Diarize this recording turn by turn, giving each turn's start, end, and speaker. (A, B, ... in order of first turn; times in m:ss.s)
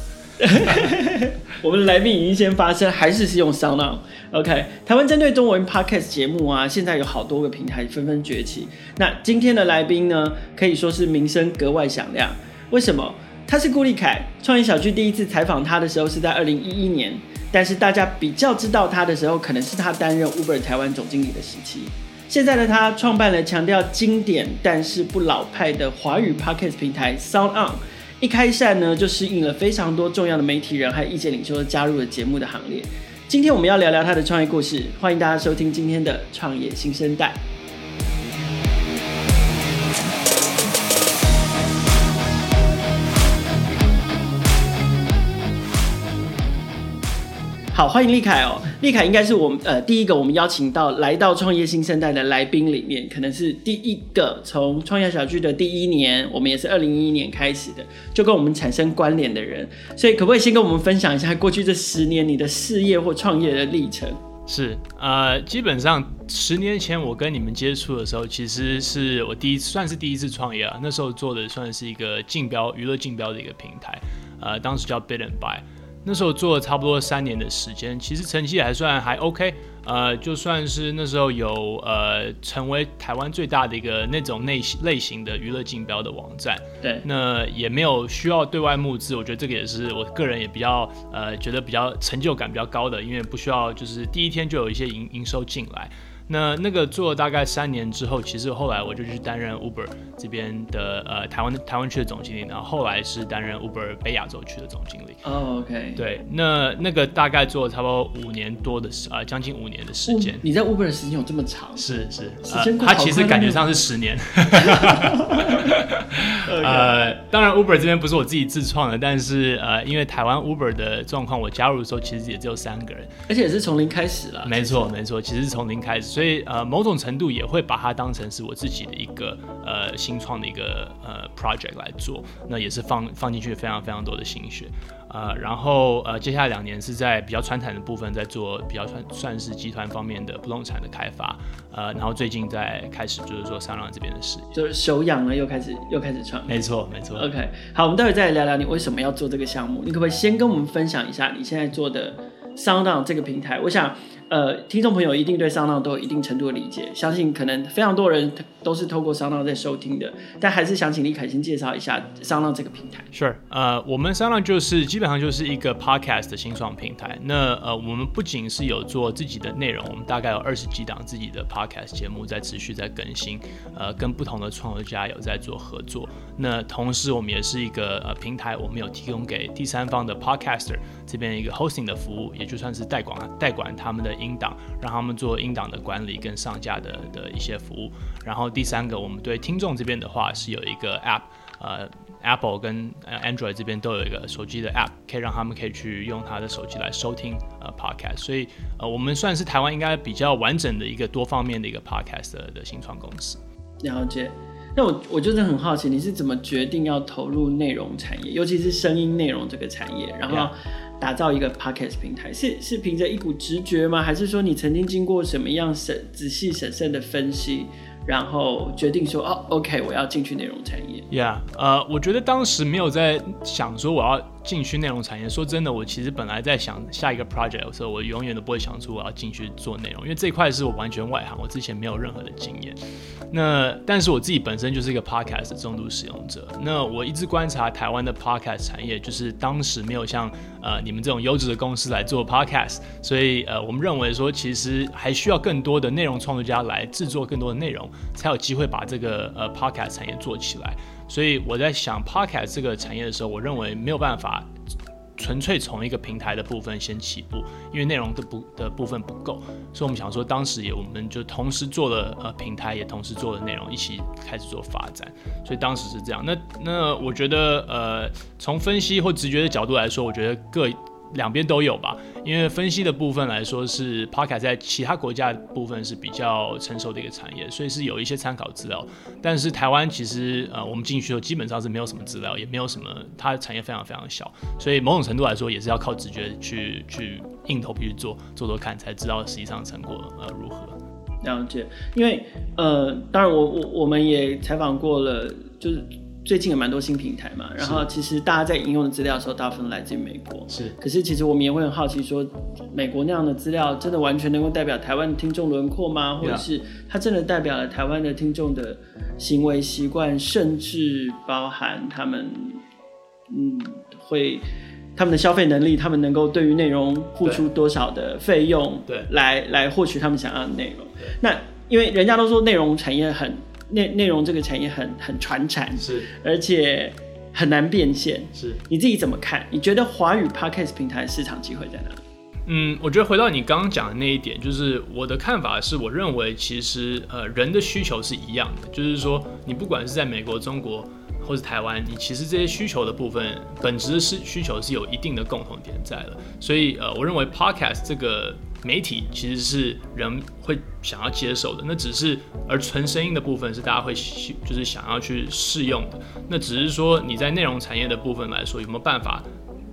0:00.4-0:37.4 A
0:00.5-0:00.9 B
0:47.7-1:04.2 A
1:04.5-1:45.2 B
1:45.2-1:46.0 A
1:46.0-1:50.4 B
1:50.1-1:51.8 A
1:51.8-2:03.1 B
1:52.4-1:53.6 A
1:54.6-1:55.7 A
1:56.4-1:57.0 A
2:03.3-2:04.9 A
2:04.4-2:24.5 B
2:24.5-2:26.6 A
2:26.5-2:27.2 B
2:27.2-2:43.1 A
2:43.1-3:23.4 B
3:23.8-3:41.0 A
3:41.1-3:52.8 B
3:53.3-4:14.5 B
4:15.2-4:50.8 B
4:51.2-5:12.6 A
4:57.6-4:57.8 B
5:00.5-5:00.7 B
5:13.3-5:14.4 A
5:15.0-5:32.0 A
5:25.8-5:26.1 B
5:28.3-5:28.6 B
5:32.4-5:59.2 B